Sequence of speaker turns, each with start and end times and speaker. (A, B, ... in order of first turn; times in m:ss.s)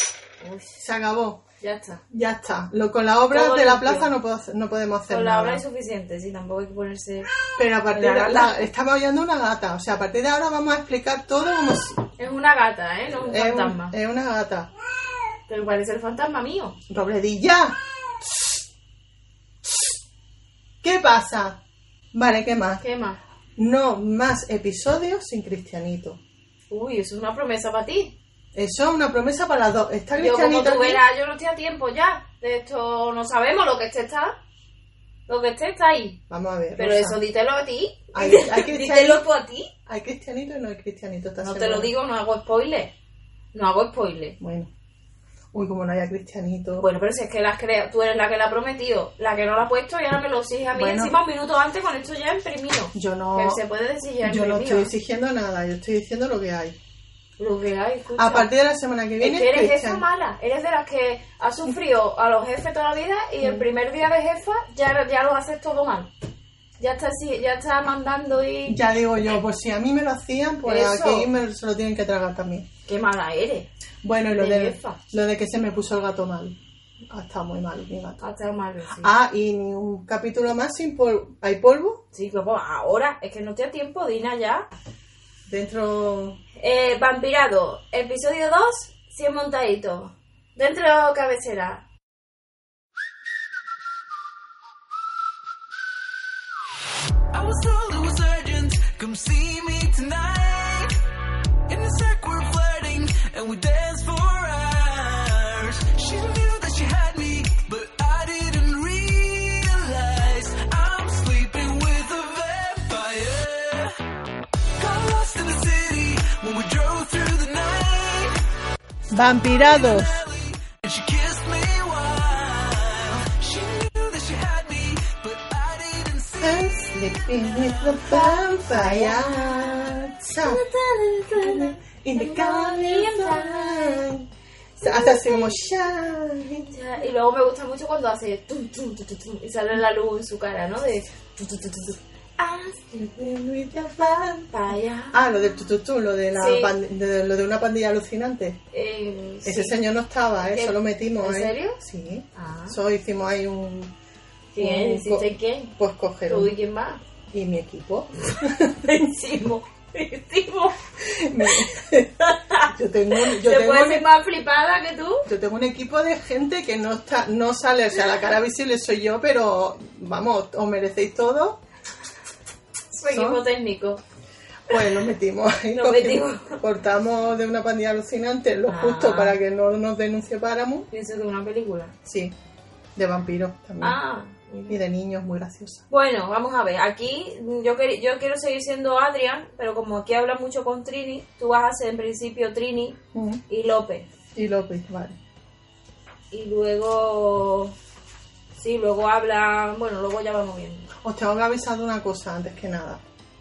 0:00.4-0:00.8 A
0:00.8-0:01.4 B
0:01.6-0:02.0 A
0:02.1-0:05.6 B
0:03.3-0:04.1 A
0:05.1-0:07.3 A
0:07.6-0:12.0 B
0:07.9-0:08.6 A
0:12.2-0:13.9 A
0:13.1-0:14.7 B
0:15.5-0:16.8 A
0:16.9-0:18.5 B
0:20.8-0:21.6 B
0:22.1-0:22.8 B
0:22.8-0:23.2 A
0:23.6-0:26.2 B
0:26.7-0:28.1 A
0:28.5-0:31.0 B
0:30.2-0:34.4 A
0:35.3-0:36.2 A
0:36.3-0:37.2 B
0:36.8-0:39.7 A
0:38.1-0:39.2 B
0:39.8-0:41.9 B
0:41.4-0:42.9 A
0:43.5-0:44.4 A
0:44.4-0:44.7 B
0:45.5-0:46.8 B
0:46.8-0:54.9 A
0:50.7-0:51.2 B
0:52.9-0:53.6 B
0:54.2-0:56.8 B
0:57.4-0:58.5 A
0:58.2-1:00.0 B
0:59.2-1:06.1 A
1:06.8-1:08.8 A
1:08.6-1:12.7 B
1:10.6-1:11.3 A
1:12.8-1:13.7 A
1:14.0-1:16.6 B
1:14.4-1:15.0 A
1:17.1-1:18.2 B
1:18.2-1:19.1 A
1:18.9-1:22.0 B
1:22.1-1:24.7 A
1:25.5-1:26.4 B
1:26.6-1:31.8 A
1:37.3-1:41.0 C
1:41.7-1:53.9 C
1:54.8-1:58.4 C
1:59.1-2:00.2 B
1:59.2-2:07.6 C
2:06.4-2:10.6 B
2:08.0-2:09.3 A
2:10.4-2:14.0 A
2:11.3-2:14.3 B
2:14.8-2:15.6 A
2:14.8-2:16.7 B
2:16.7-2:22.9 A
2:22.9-2:24.5 B
2:24.5-2:25.2 A
2:25.1-2:28.6 B
2:26.3-2:26.7 A
2:28.7-2:29.8 A
2:29.4-2:33.9 B
2:30.5-2:31.8 A
2:32.3-2:32.8 A
2:34.5-2:35.7 A
2:34.6-2:36.5 B
2:36.3-2:37.0 A
2:37.3-2:39.1 B
2:38.7-2:40.8 A
2:41.0-2:42.1 B
2:41.4-2:45.3 A
2:42.6-2:44.1 B
2:45.2-2:51.6 B
2:52.9-2:54.0 A
2:53.1-2:53.4 B
2:54.7-3:00.9 B
2:55.7-2:56.6 A
2:58.7-2:59.4 A
3:00.9-3:01.9 A
3:02.0-3:02.3 B
3:03.0-3:04.0 B
3:03.8-3:04.8 A
3:04.7-3:05.8 B
3:05.9-3:14.1 A
3:13.1-3:13.4 B
3:14.3-3:15.2 B
3:16.3-3:17.7 A
3:18.6-3:20.9 A
3:21.0-3:23.0 B